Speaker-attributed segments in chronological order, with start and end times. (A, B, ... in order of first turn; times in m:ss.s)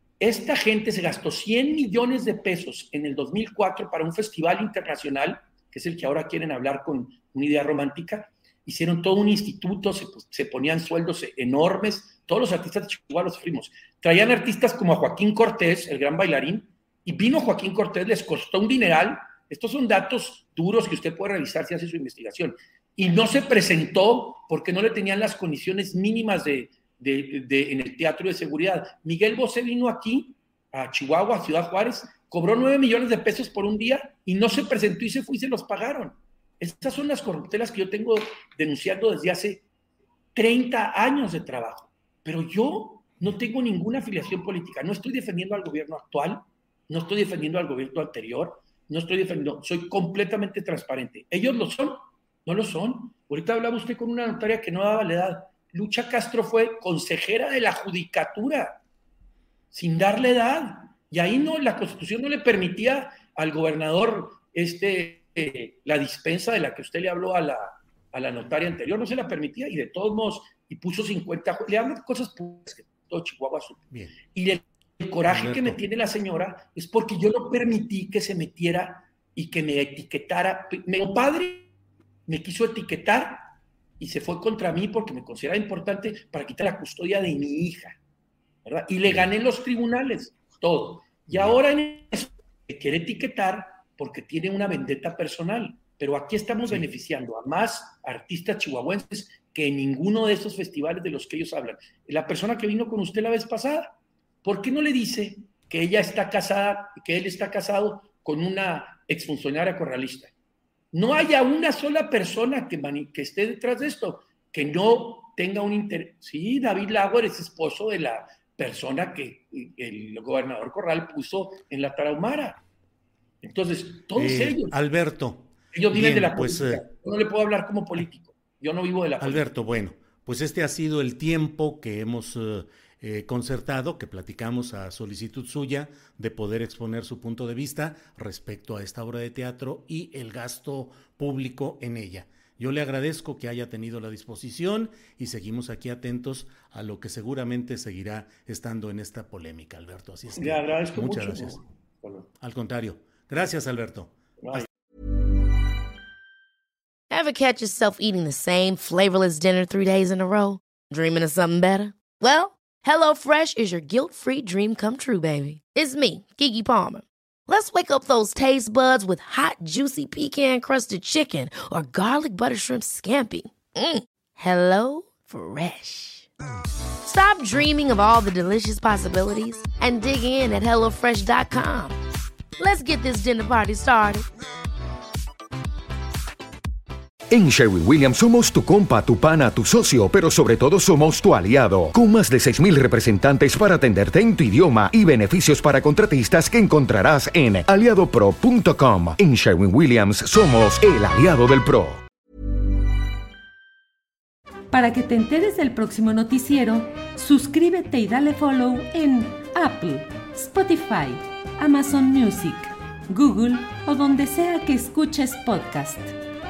0:00.2-0:39.6 A
0:40.3-0:58.8 A
0:59.7-1:21.7 A
1:15.3-1:15.8 B
1:22.3-1:28.0 A
1:28.6-1:50.3 A
1:31.3-1:31.6 B
1:50.9-2:02.6 A
2:03.4-2:04.7 A
2:04.2-2:06.8 B
2:05.7-2:09.4 A
2:09.2-2:31.6 B
2:30.4-2:32.3 A
2:32.4-2:34.6 B
2:37.1-2:56.3 C
2:57.0-3:02.0 C
3:02.6-3:04.2 C
3:07.3-3:22.0 D
3:24.7-3:36.2 E